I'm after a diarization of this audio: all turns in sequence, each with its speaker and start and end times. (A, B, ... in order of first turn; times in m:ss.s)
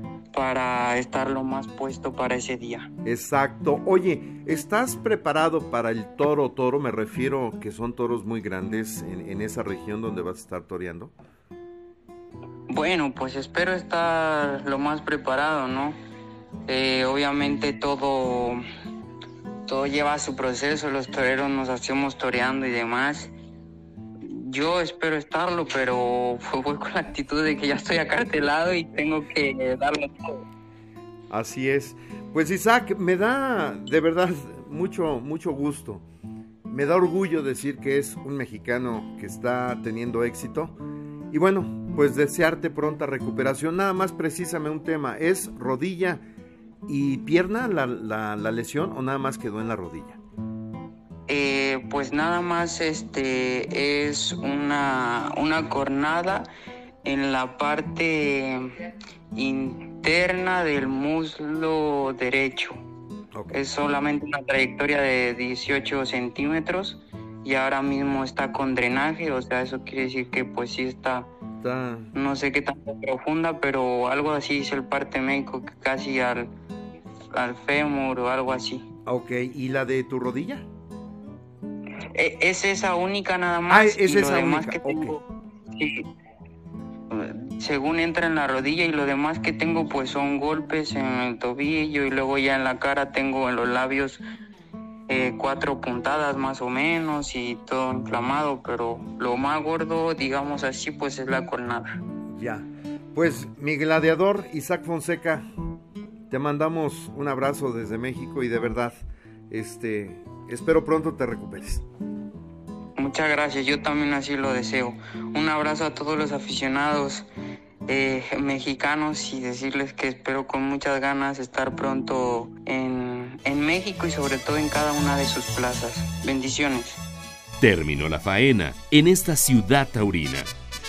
0:00.3-0:02.9 A
0:03.0-0:11.1 B
0:12.7-0:16.0 A
0:16.7-0:18.6 A
0:19.7-0:23.3 A
0:24.2-0:30.4 A
0:31.3-0:36.0 B
0:36.7-0:40.8 B
0:41.3-0:46.2 B
0:46.9-0:50.2 B
0:51.3-0:56.5 A
0:57.0-0:58.8 A
0:59.3-1:02.8 A
1:03.3-1:03.6 B
1:03.5-1:11.3 A
1:11.6-1:12.1 B
1:12.1-1:16.5 A
1:17.3-1:18.8 A
1:19.1-1:20.7 B
1:22.1-1:26.1 A
1:23.7-1:25.2 B
1:27.1-1:34.2 A
1:35.1-1:41.9 A
1:42.4-1:45.4 B
1:46.3-1:51.8 B
1:53.0-1:57.3 A
1:57.9-2:07.0 A
2:07.6-2:10.5 C